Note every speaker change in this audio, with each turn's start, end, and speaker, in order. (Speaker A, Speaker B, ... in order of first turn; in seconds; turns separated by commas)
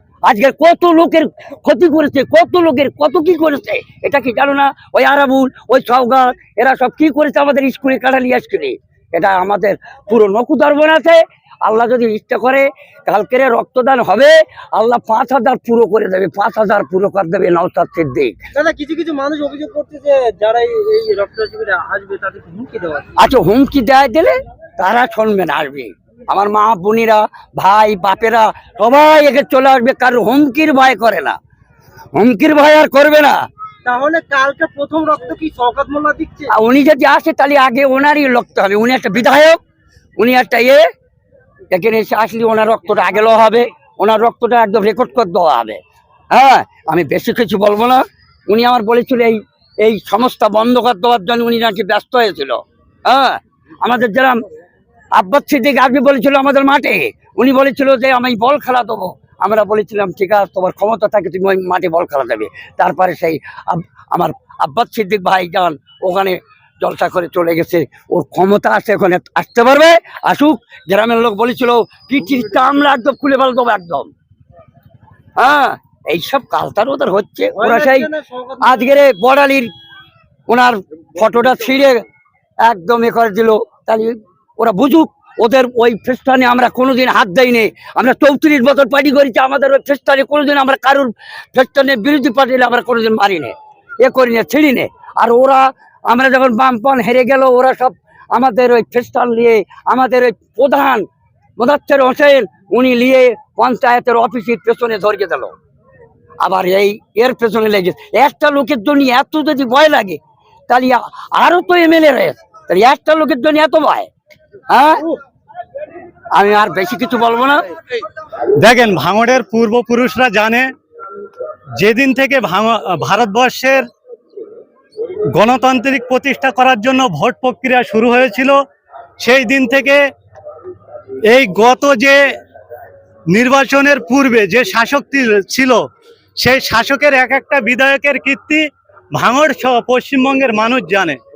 Speaker A: 0.2-18.4, Speaker B: 18.6-23.1, Speaker A: 23.2-31.4, Speaker A: 32.1-33.5, Speaker B: 33.9-36.5, Speaker A: 36.5-39.6, Speaker A: 40.2-40.8, Speaker A: 41.7-45.8, Speaker A: 46.3-54.4, Speaker A: 55.1-74.1, Speaker A: 75.4-79.7, Speaker B: 77.5-78.9, Speaker A: 80.5-82.0, Speaker A: 82.6-101.1, Speaker A: 101.6-105.6, Speaker A: 106.4-114.1, Speaker A: 114.7-115.1, Speaker A: 116.3-117.7, Speaker C: 118.6-120.7, Speaker C: 121.8-123.8, Speaker C: 125.3-128.6, Speaker C: 129.2-130.0, Speaker C: 131.3-132.2, Speaker C: 133.3-135.8, Speaker C: 136.4-141.2